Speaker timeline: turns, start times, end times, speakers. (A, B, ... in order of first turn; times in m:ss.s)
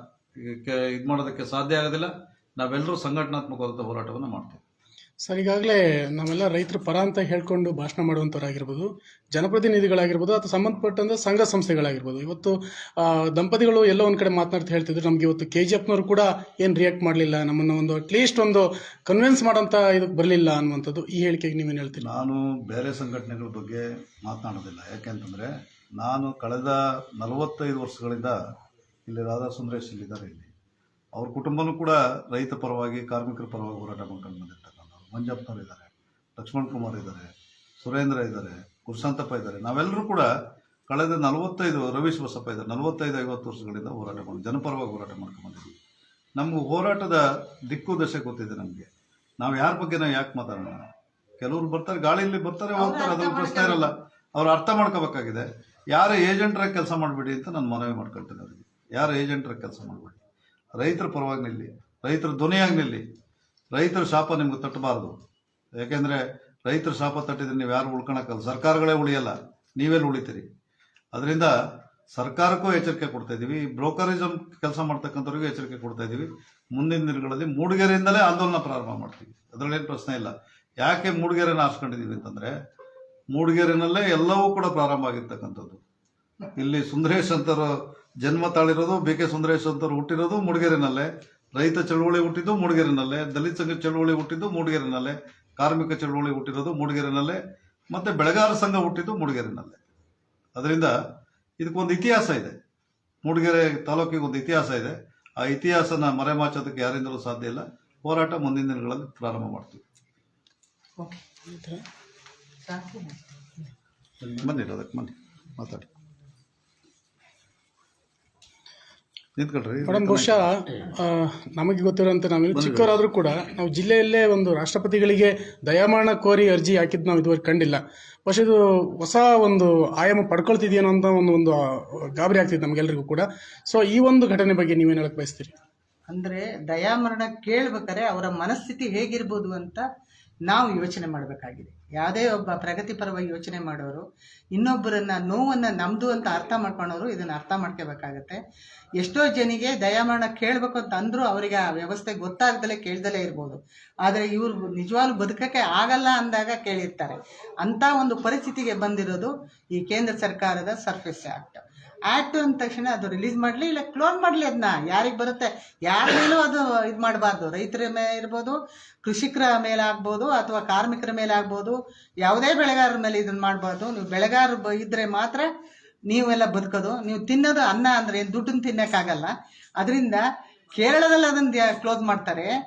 0:00.4-0:04.6 A
0:05.2-0:22.1 B
0:22.0-0:28.4 A
0:29.1-0:30.5 A
0:31.1-0:37.3 A
0:37.8-0:40.3 A
0:40.9-0:45.7 A
0:46.4-0:48.9 A
0:49.4-0:50.9 A
0:51.4-1:00.2 A
0:52.8-0:53.8 C
1:00.8-1:03.0 A
1:03.7-1:05.2 A
1:05.8-1:10.5 A
1:11.1-1:11.5 A
1:12.1-1:22.5 A
1:23.3-1:25.8 A
1:26.6-1:39.8 A
1:40.6-1:40.9 A
1:41.6-1:42.6 A
1:43.2-1:49.8 A
1:51.5-1:51.8 B
1:52.7-1:53.2 C
1:54.2-1:55.9 A
1:59.4-2:00.4 A
1:59.8-2:15.6 B
2:02.5-2:03.0 A
2:16.1-2:19.8 C
2:20.5-2:24.0 C
2:24.5-2:28.4 C
2:29.0-2:55.5 C
2:56.1-3:00.2 C
3:00.7-3:02.5 C